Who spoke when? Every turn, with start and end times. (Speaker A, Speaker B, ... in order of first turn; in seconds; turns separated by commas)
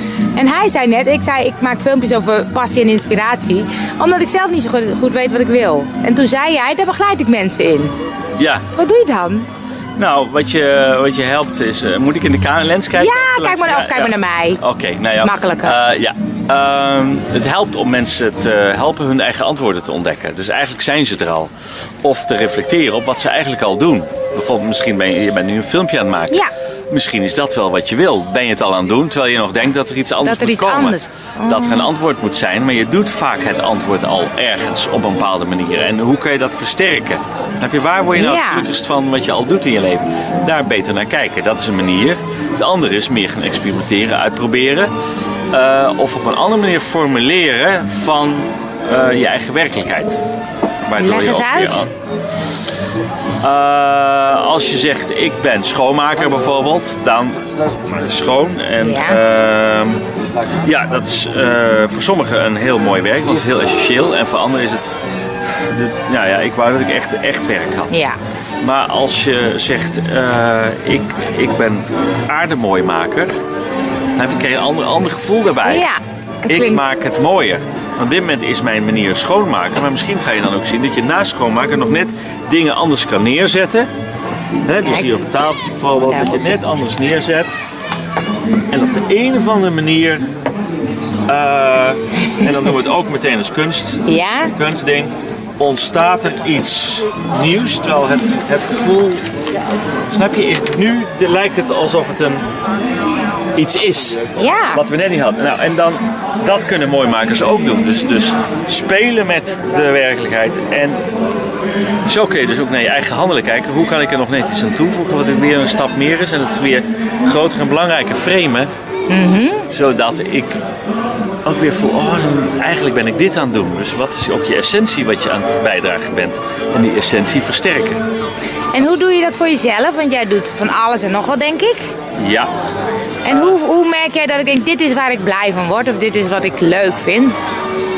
Speaker A: 0.3-7.9, Speaker B: 8.4-8.7, Speaker A: 8.7-9.5, Speaker B: 9.9-21.5, Speaker A: 12.9-14.6, Speaker A: 15.2-15.8, Speaker B: 22.0-44.9, Speaker A: 30.2-31.9, Speaker A: 38.1-38.7, Speaker B: 45.5-50.2, Speaker B: 50.9-51.9, Speaker A: 51.0-51.9, Speaker B: 53.4-60.0, Speaker A: 58.8-59.2, Speaker B: 60.6-64.8, Speaker B: 65.5-67.9, Speaker A: 67.9-68.2, Speaker B: 68.6-73.3, Speaker B: 74.2-75.9, Speaker A: 75.6-76.8, Speaker B: 76.5-83.9, Speaker B: 84.7-87.5, Speaker A: 84.8-85.1, Speaker B: 88.7-90.2, Speaker B: 91.3-99.2, Speaker A: 94.0-94.5, Speaker B: 100.1-102.4, Speaker B: 103.5-111.0, Speaker A: 104.3-104.8, Speaker B: 112.0-118.7, Speaker A: 119.1-119.7, Speaker B: 119.7-120.6, Speaker B: 121.4-128.0, Speaker A: 128.7-131.9, Speaker B: 132.2-132.5, Speaker A: 133.2-137.4